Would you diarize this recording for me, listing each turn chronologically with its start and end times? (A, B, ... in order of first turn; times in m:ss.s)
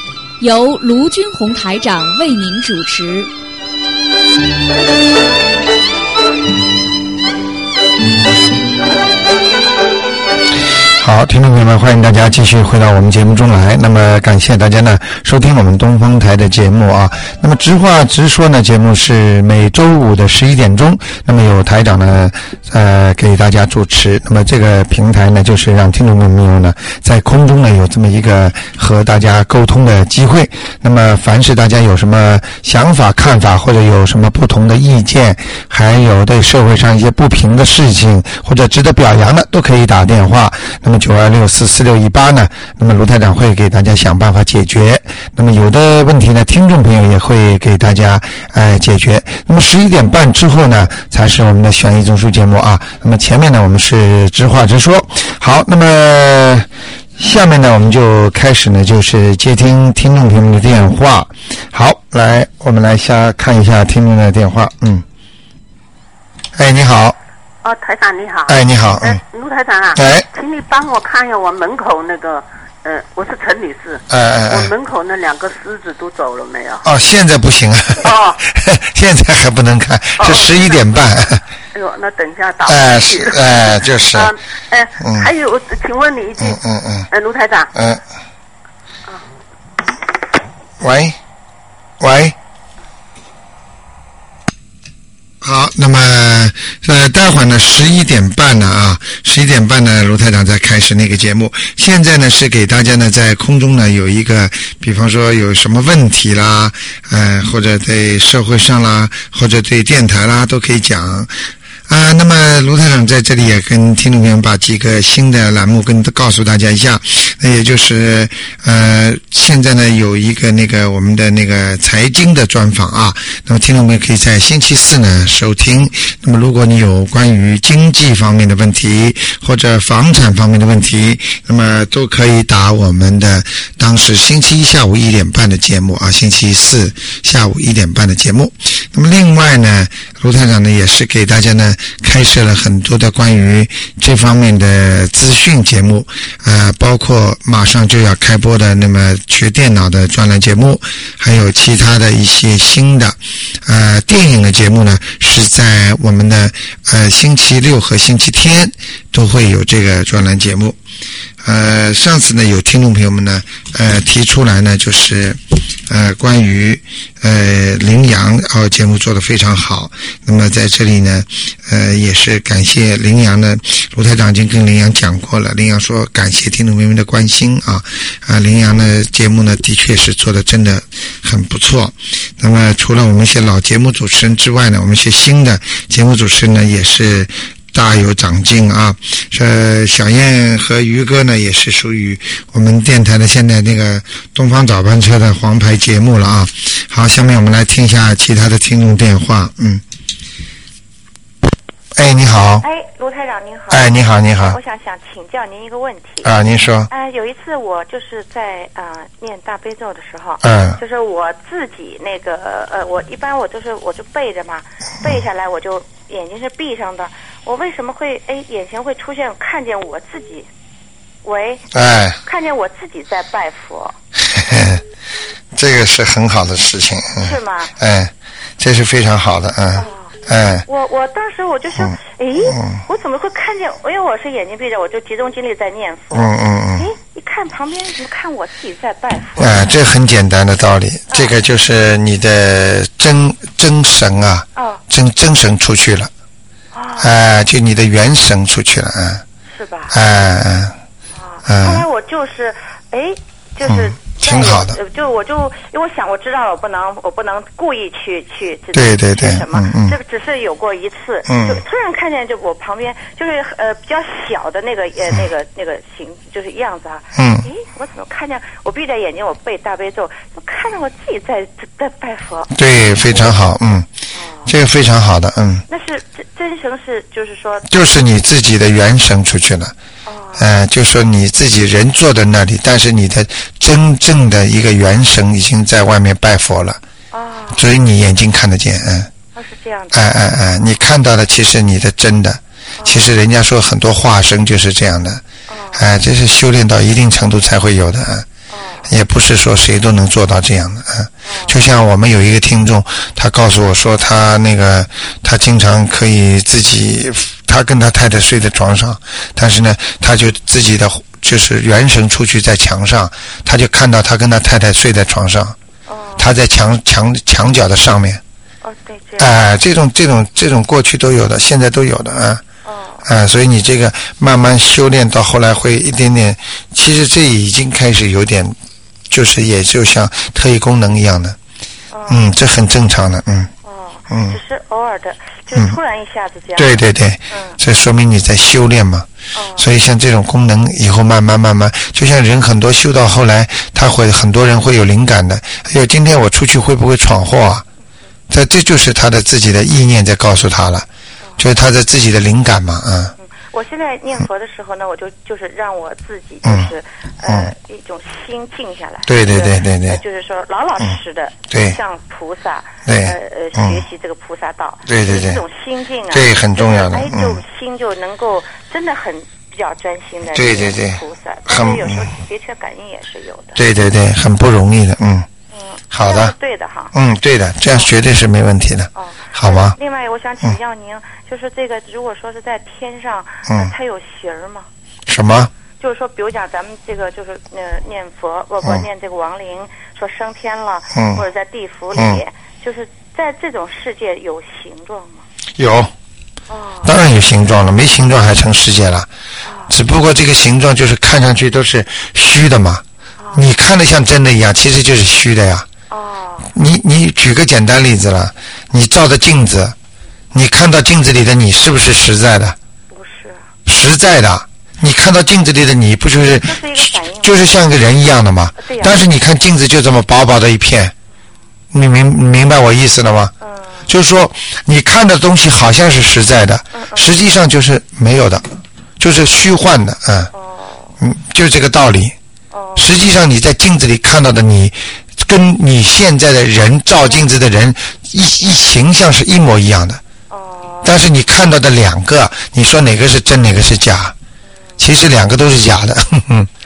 0:00.4-0:03.3 A
0:11.0-1:05.0 B
1:06.5-1:07.2 B
1:07.6-1:16.9 C
1:08.4-1:09.2 B
1:09.9-1:10.2 B
1:14.1-1:14.7 B
1:16.8-1:21.4 B
1:18.0-1:18.4 C
1:20.2-1:21.0 C
1:21.7-1:27.7 C
1:22.6-1:24.3 B
1:25.0-1:25.3 B
1:26.4-1:27.1 B
1:27.7-1:28.0 B
1:30.8-1:31.2 B
1:32.0-1:32.4 B
1:35.4-1:51.3 B
1:51.9-2:40.8 B
2:41.4-3:19.8 B
3:21.9-3:22.6 B
3:22.6-3:26.3 D
3:23.7-3:24.6 B
3:26.2-3:26.9 B
3:26.9-3:40.5 D
3:30.4-3:30.8 B
3:41.2-3:41.7 D
3:41.7-3:42.2 B
3:42.2-3:44.0 D
3:44.3-3:44.8 B
3:45.5-3:50.6 B
3:47.2-3:47.7 D
3:49.7-3:59.7 D
3:51.8-3:52.8 B
3:56.1-3:56.9 B
3:59.4-4:06.1 B
4:04.6-4:04.8 D
4:06.7-4:07.1 D
4:07.0-4:09.2 B
4:09.5-4:10.0 D
4:09.9-4:10.8 B
4:11.1-4:32.5 D
4:11.4-4:11.8 B
4:13.6-4:14.8 B
4:18.7-4:20.0 B
4:21.3-4:21.6 B
4:27.2-4:27.4 B
4:32.5-4:33.9 B
4:33.1-4:33.4 D
4:34.1-4:34.5 D
4:34.4-4:35.6 B
4:35.7-4:37.7 D
4:37.7-4:39.7 B
4:40.0-4:40.5 D
4:40.4-4:46.8 B
4:47.1-4:47.7 D
4:47.5-4:49.1 B
4:49.3-4:50.6 D
4:49.9-4:55.2 B
4:52.8-4:53.1 D
4:55.5-4:55.8 D
4:55.7-4:58.2 B
4:58.5-4:58.9 D
4:58.9-5:15.6 B
5:01.2-5:01.6 D
5:15.9-5:16.3 D
5:16.2-5:18.2 B
5:18.6-5:19.3 D
5:19.2-5:22.4 B
5:22.6-5:23.1 D
5:23.0-5:28.6 B
5:29.1-5:31.4 B
5:31.9-5:32.2 D
5:32.1-5:33.5 B
5:33.6-5:37.6 D
5:34.1-5:34.4 B
5:36.6-5:47.6 B
5:39.3-5:39.7 D
5:48.3-5:50.9 B
5:51.4-5:53.1 B
5:53.2-6:13.6 D
5:56.4-5:56.7 B
5:57.2-5:57.5 B
5:59.0-6:00.0 B
6:01.5-6:01.8 B
6:02.8-6:03.8 B
6:04.9-6:05.4 B
6:06.1-6:07.4 B
6:10.3-6:12.1 B
6:13.5-6:15.3 B
6:15.5-6:16.9 D
6:15.9-6:16.3 B
6:16.9-6:19.8 B
6:18.9-6:24.7 D
6:25.1-6:25.5 B
6:25.8-6:35.3 D
6:30.9-6:31.2 B
6:31.9-6:32.2 B
6:35.6-6:35.9 B
6:36.5-6:36.9 D
6:36.8-6:39.1 B
6:39.4-6:39.7 D
6:39.7-6:45.7 B
6:43.2-6:43.4 D
6:45.9-6:46.5 D
6:46.5-6:49.7 B
6:50.3-6:52.6 B
6:52.9-6:53.4 D
6:53.6-7:00.9 B
6:56.2-6:57.4 D
6:58.6-6:59.0 D
7:01.7-7:03.3 B
7:03.4-7:03.9 D
7:03.9-7:08.4 B
7:06.7-7:07.1 D
7:09.0-7:10.3 B
7:10.3-7:11.0 D
7:11.0-7:12.2 B
7:12.5-7:12.9 D
7:12.8-7:20.0 B
7:20.3-7:21.0 D
7:20.8-7:24.1 B
7:24.8-7:26.5 B